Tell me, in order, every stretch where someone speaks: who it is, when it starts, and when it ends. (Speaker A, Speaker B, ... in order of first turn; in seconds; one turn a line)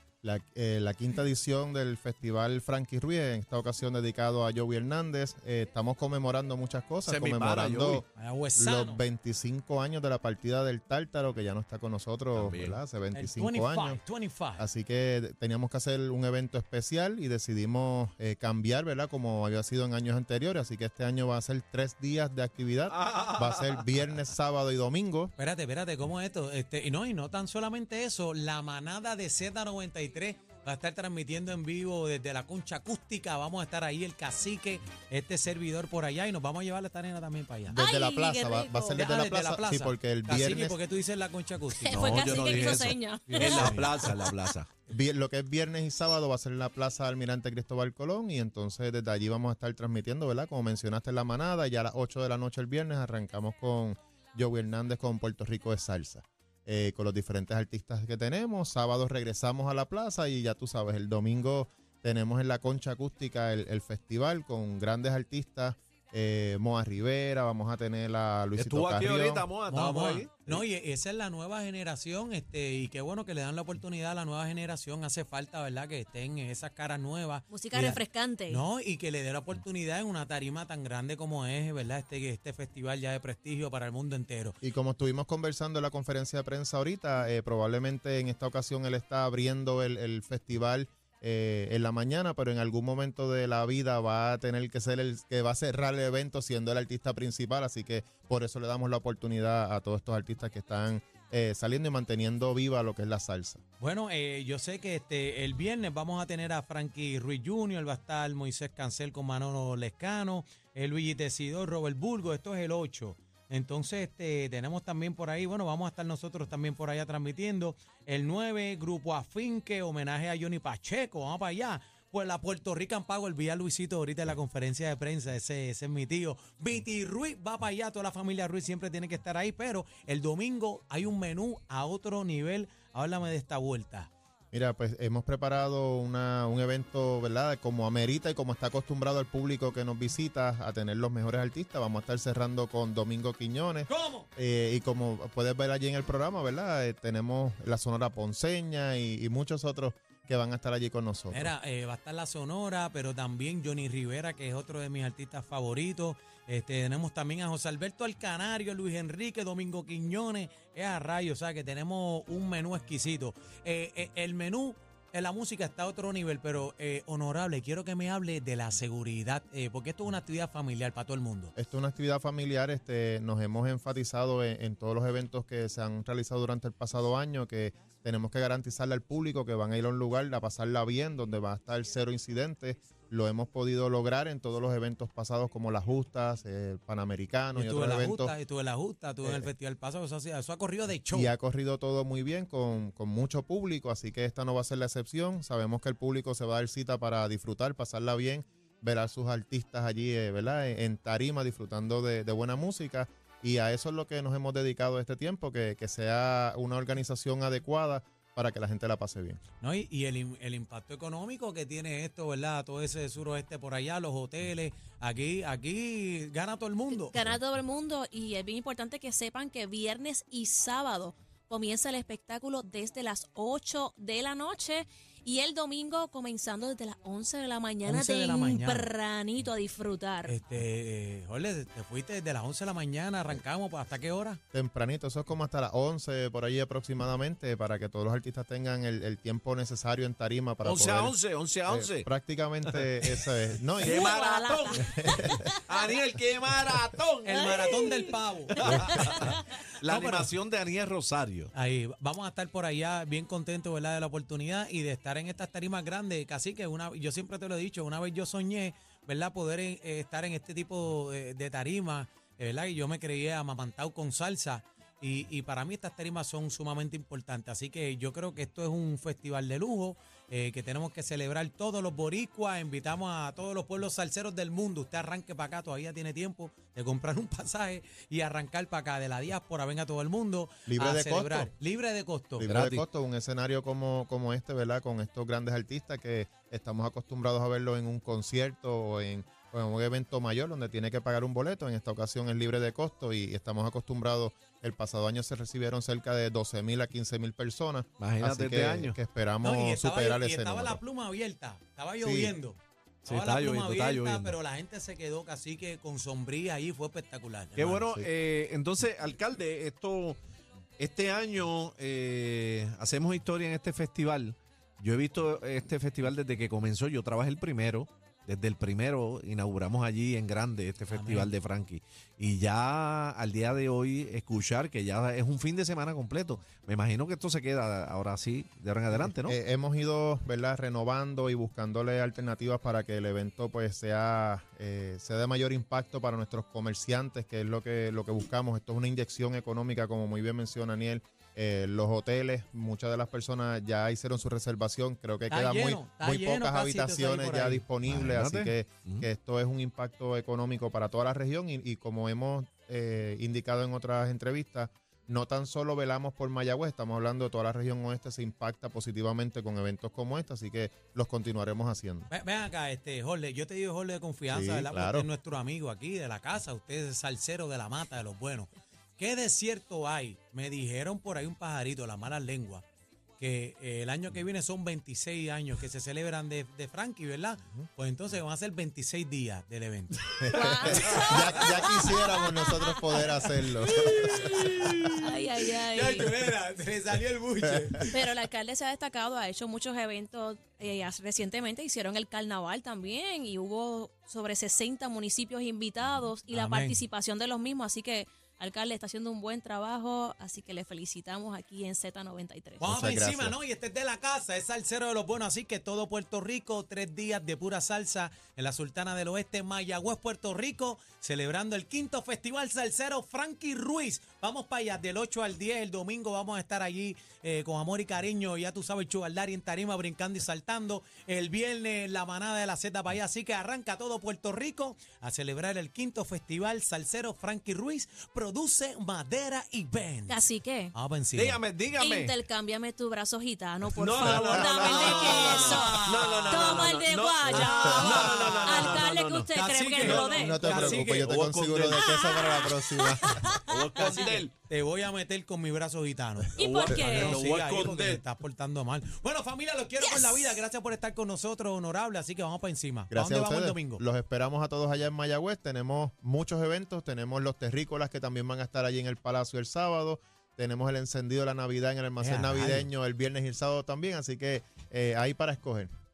Speaker A: 0.2-8.0
Speaker B: 7.0-8.0
Speaker C: 8.1-9.0
Speaker A: 8.6-14.0
Speaker B: 12.3-12.8
Speaker C: 13.1-14.7
Speaker A: 14.6-25.3
Speaker B: 22.9-24.0
Speaker C: 25.4-37.8
Speaker A: 37.7-40.8
Speaker D: 37.7-39.0
Speaker C: 38.9-42.6
Speaker D: 41.7-44.3
Speaker B: 41.9-44.7
Speaker C: 43.3-44.1
Speaker A: 44.9-69.5
Speaker B: 68.5-70.6
Speaker C: 69.7-84.5
Speaker D: 77.5-78.6
Speaker A: 84.6-103.6
Speaker C: 103.8-134.1
Speaker A: 134.5-151.5
Speaker C: 143.9-144.3
Speaker C: 151.3-171.5
Speaker A: 171.6-188.3
Speaker C: 187.5-191.3
Speaker A: 189.2-189.5
Speaker A: 191.1-209.4
Speaker C: 209.6-217.3
Speaker D: 216.9-230.3
Speaker C: 227.8-228.9
Speaker C: 230.2-234.4
Speaker A: 234.5-244.1
Speaker B: 240.6-242.1
Speaker B: 242.7-245.1
Speaker D: 243.8-245.8
Speaker A: 244.9-245.4
Speaker B: 245.7-247.5
Speaker C: 247.2-249.3
Speaker D: 247.4-249.4
Speaker B: 248.6-251.5
Speaker C: 249.9-250.3
Speaker C: 251.5-282.5
Speaker A: 280.7-281.5
Speaker A: 282.4-300.8
Speaker B: 282.4-282.8
Speaker B: 298.0-299.0
Speaker C: 299.4-308.1
Speaker A: 302.0-302.3
Speaker B: 303.1-304.3
Speaker B: 307.6-310.2
Speaker B: 310.8-329.4
Speaker C: 320.9-321.3
Speaker A: 329.1-362.1
Speaker C: 345.3-347.7
Speaker B: 347.8-349.1
Speaker C: 362.1-372.6
Speaker A: 364.3-365.1
Speaker C: 373.2-381.2
Speaker A: 380.2-384.9
Speaker D: 380.3-383.1
Speaker C: 383.9-385.1
Speaker D: 385.0-386.1
Speaker C: 385.7-387.9
Speaker A: 387.5-387.8
Speaker D: 387.9-402.6
Speaker C: 396.3-396.8
Speaker C: 402.6-430.2
Speaker A: 402.6-403.4
Speaker D: 430.1-430.7
Speaker C: 430.7-431.4
Speaker B: 431.1-432.2
Speaker D: 431.8-440.7
Speaker B: 433.7-439.3
Speaker A: 434.0-436.0
Speaker C: 434.6-436.5
Speaker C: 437.3-441.2
Speaker A: 437.6-438.0
Speaker B: 439.8-442.2
Speaker A: 440.1-443.3
Speaker D: 441.7-444.2
Speaker B: 443.4-444.3
Speaker C: 443.8-453.8
Speaker D: 446.4-447.2
Speaker B: 446.4-448.0
Speaker D: 449.8-450.4
Speaker A: 452.9-465.7
Speaker C: 462.0-462.7